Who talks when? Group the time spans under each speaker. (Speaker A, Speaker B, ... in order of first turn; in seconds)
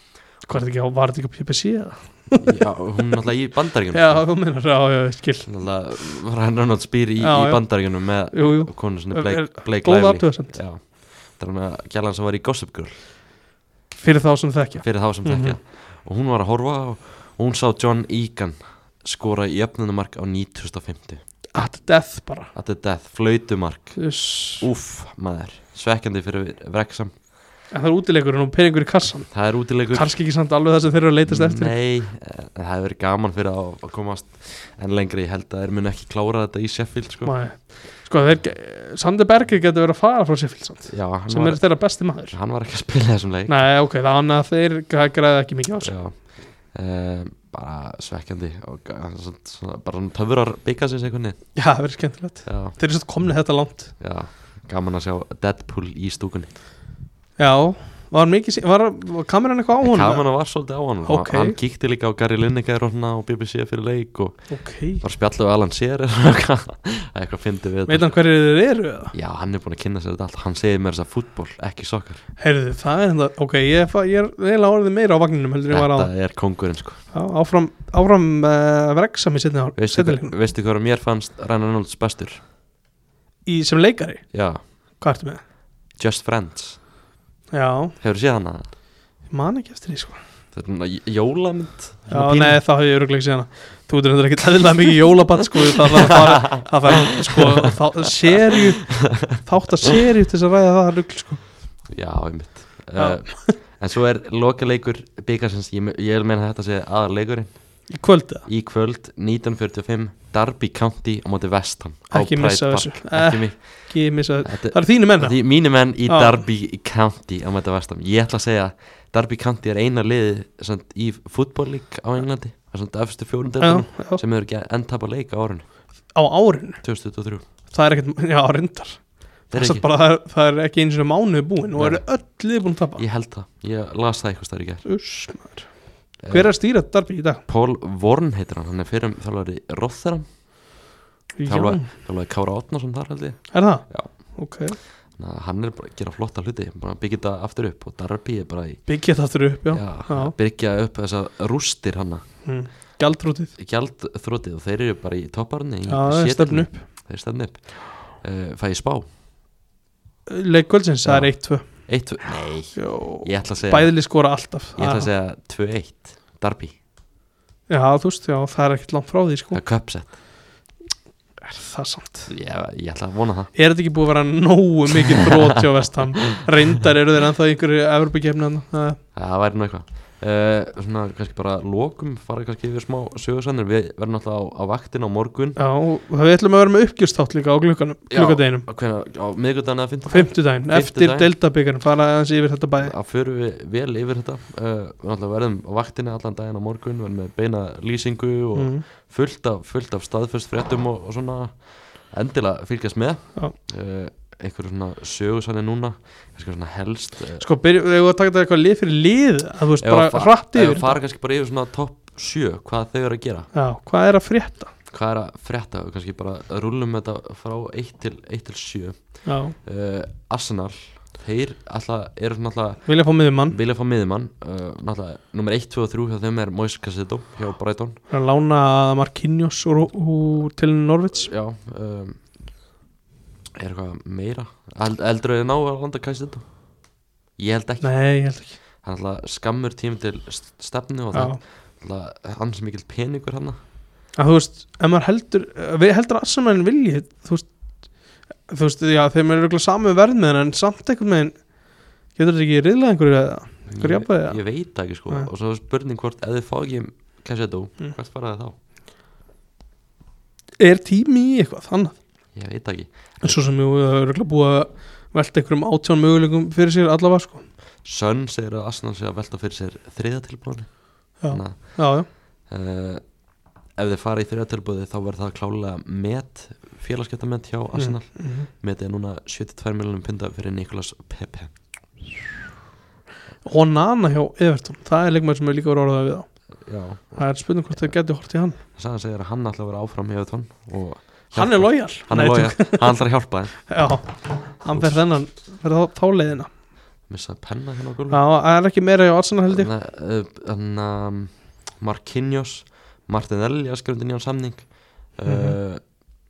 Speaker A: 0.4-2.6, 3.9-5.5, 7.2-10.6, 13.9-15.6, 21.5-22.5, 24.0-24.7, 27.7-29.4, 29.9-31.7, 37.2-42.4, 43.5-46.0, 51.5-53.9, 57.4-60.3, 61.0-61.6, 64.5-65.0, 67.9-69.1, 72.4-76.1, 77.1-80.3, 83.5-84.3, 85.0-85.4, 87.5-88.0, 89.3-90.2, 92.1-101.4, 103.0-103.6, 107.9-108.5, 112.1-115.4, 116.1-116.4, 123.6-124.2, 126.1-126.8, 127.7-133.0, 134.8-137.4, 141.4-141.9, 143.5-144.8, 148.9-150.3, 152.4-153.5, 155.9-156.8, 160.3-161.7, 162.8-165.1, 167.7-169.6, 171.4-172.3, 173.6-179.0, 185.6-188.7, 190.1-192.9, 198.6-198.8, 207.4-210.9, 213.5-214.7, 219.2-219.6, 222.9-223.6, 228.1-231.3, 237.8-238.6, 241.1-241.4, 244.2-247.5, 248.5-251.5, 252.1-254.4, 260.6-262.0, 263.2-267.4, 271.2-272.1, 277.7-278.5, 283.4-286.3, 287.2-288.6, 291.3-293.0, 293.7-296.5, 298.1-299.7, 305.3-305.6
Speaker B: 2.4-4.3, 5.5-13.0, 14.8-21.2, 22.5-27.1, 29.3-30.1, 31.3-37.4, 40.9-43.6, 45.8-51.4, 52.5-52.8, 54.0-56.5, 59.8-68.1, 69.1-72.2, 75.7-77.0, 79.8-82.4, 84.3-84.6, 86.0-86.8, 88.0-88.7, 90.5-92.6, 96.4-97.8, 98.5-99.4, 101.9-107.9, 108.5-125.6, 126.8-127.4, 129.5-129.8, 131.8-132.1, 133.0-134.8, 136.2-136.5, 137.5-140.3, 141.4-144.1, 145.2-148.8, 149.7-152.2, 153.6-159.1, 161.0-164.0, 164.8-166.7, 169.5-170.2, 172.3-173.5, 179.2-185.6, 188.1-191.3, 192.8-207.4, 209.8-213.5, 214.9-222.9, 223.5-228.0, 231.2-232.2, 233.6-236.5, 237.4-238.0, 238.8-243.6, 253.7-258.6, 262.4-263.4, 267.8-273.1, 273.8-281.5, 286.6-287.3, 288.8-293.7, 294.7-295.0, 297.1-298.2, 299.5-305.8